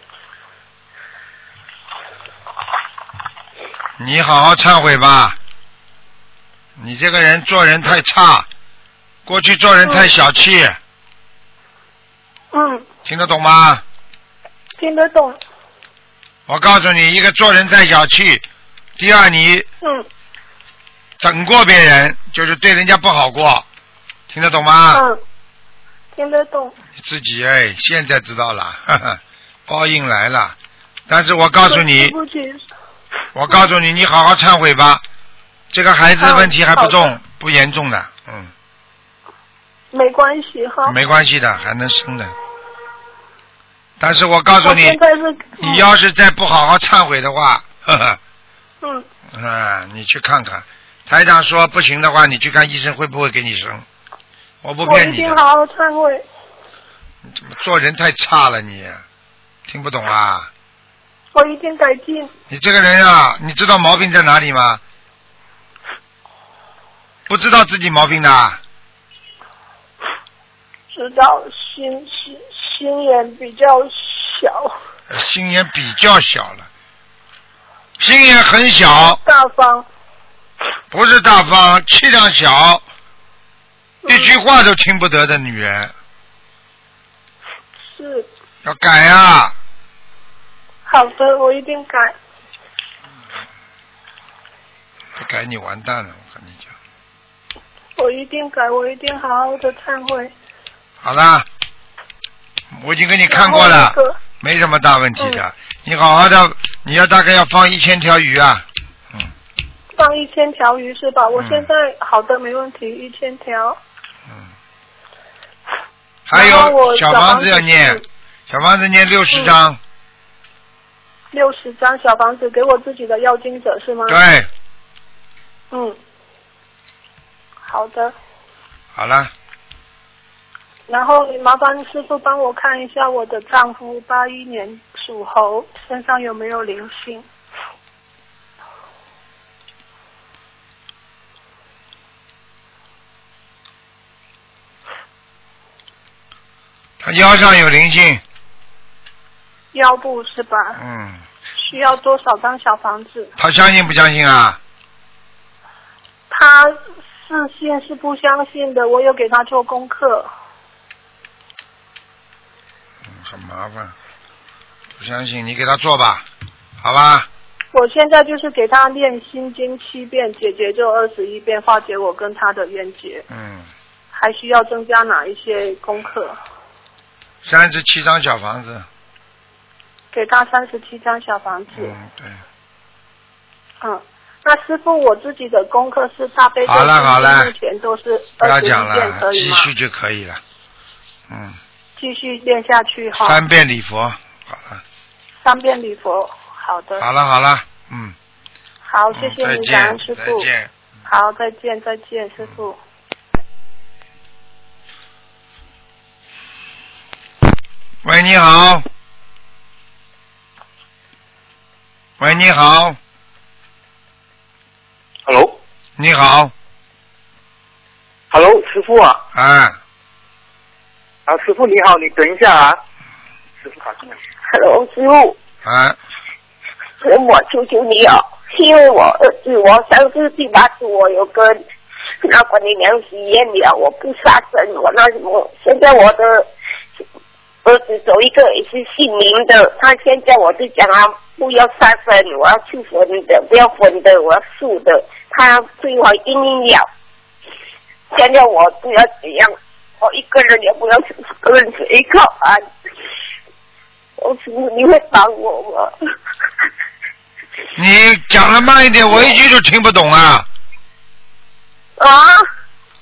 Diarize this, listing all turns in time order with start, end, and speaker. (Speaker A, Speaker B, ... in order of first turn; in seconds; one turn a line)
Speaker A: 4.0-5.4
Speaker A: 6.8-8.5
Speaker A: 9.2-10.8
Speaker B: 9.8-10.1
Speaker B: 12.5-12.9
Speaker A: 13.0-13.8
Speaker B: 14.8-15.4
Speaker A: 16.5-18.4
Speaker A: 19.0-19.7
Speaker B: 19.8-20.1
Speaker A: 21.2-23.6
Speaker A: 24.3-25.0
Speaker B: 24.9-25.2
Speaker B: 26.1-26.7
Speaker A: 27.0-30.6
Speaker A: 31.1-32.1
Speaker B: 31.6-32.6
Speaker A: 33.3-35.0
Speaker A: 35.7-38.5
Speaker B: 36.2-37.1
Speaker B: 39.9-41.0
Speaker A: 40.8-42.3
Speaker A: 44.0-45.0
Speaker B: 44.6-45.8
Speaker A: 45.6-48.2
Speaker A: 49.3-53.9
Speaker A: 54.6-55.4
Speaker B: 54.8-56.2
Speaker A: 57.3-59.0
Speaker A: 59.7-60.5
Speaker B: 61.3-62.3
Speaker A: 62.5-64.8
Speaker A: 67.3-68.6
Speaker B: 70.9-74.8
Speaker A: 75.1-76.7
Speaker A: 78.0-79.2
Speaker B: 79.0-79.8
Speaker A: 80.9-82.8
Speaker B: 84.0-84.4
Speaker A: 84.1-85.9
Speaker B: 87.8-88.3
Speaker A: 88.6-89.5
Speaker B: 90.8-92.2
Speaker A: 95.2-96.7
Speaker B: 98.0-100.3
Speaker A: 101.0-101.5
Speaker A: 102.7-109.3
Speaker B: 103.3-104.2
Speaker B: 105.2-105.4
Speaker B: 110.0-113.8
Speaker A: 111.3-111.7
Speaker A: 116.3-119.8
Speaker B: 116.3-118.0
Speaker B: 121.3-124.2
Speaker A: 124.1-124.5
Speaker B: 125.7-126.0
Speaker B: 127.6-128.2
Speaker A: 128.9-129.3
Speaker B: 130.9-137.3
Speaker A: 147.0-148.2
Speaker B: 149.7-150.8
Speaker A: 150.8-151.2
Speaker B: 151.6-153.3
Speaker A: 153.4-154.6
Speaker B: 156.3-160.3
Speaker A: 163.1-163.9
Speaker A: 165.0-166.2
Speaker A: 166.8-167.3
Speaker B: 167.7-173.2
Speaker A: 173.3-173.7
Speaker B: 174.1-176.4
Speaker A: 177.4-178.9
Speaker B: 180.1-181.9
Speaker A: 181.7-182.4
Speaker B: 183.8-189.7
Speaker A: 186.6-187.5
Speaker A: 188.4-190.4
Speaker A: 191.3-191.6
Speaker B: 192.0-193.4
Speaker A: 193.2-194.8
Speaker B: 195.4-197.0
Speaker A: 197.0-198.1
Speaker B: 198.8-200.5
Speaker A: 199.1-200.7
Speaker B: 201.1-202.8
Speaker A: 208.0-208.8
Speaker A: 212.2-213.0
Speaker C: 215.2-215.6
Speaker A: 216.0-216.5
Speaker C: 218.3-219.2
Speaker A: 219.3-219.8
Speaker C: 221.2-222.8
Speaker C: 223.6-224.0
Speaker D: 224.5-225.4
Speaker A: 225.6-226.0
Speaker D: 227.0-231.6
Speaker D: 232.2-236.5
Speaker D: 237.6-246.9
Speaker D: 248.1-252.6
Speaker D: 254.2-255.9
Speaker A: 257.8-260.5
Speaker D: 259.1-259.4
Speaker D: 262.0-262.4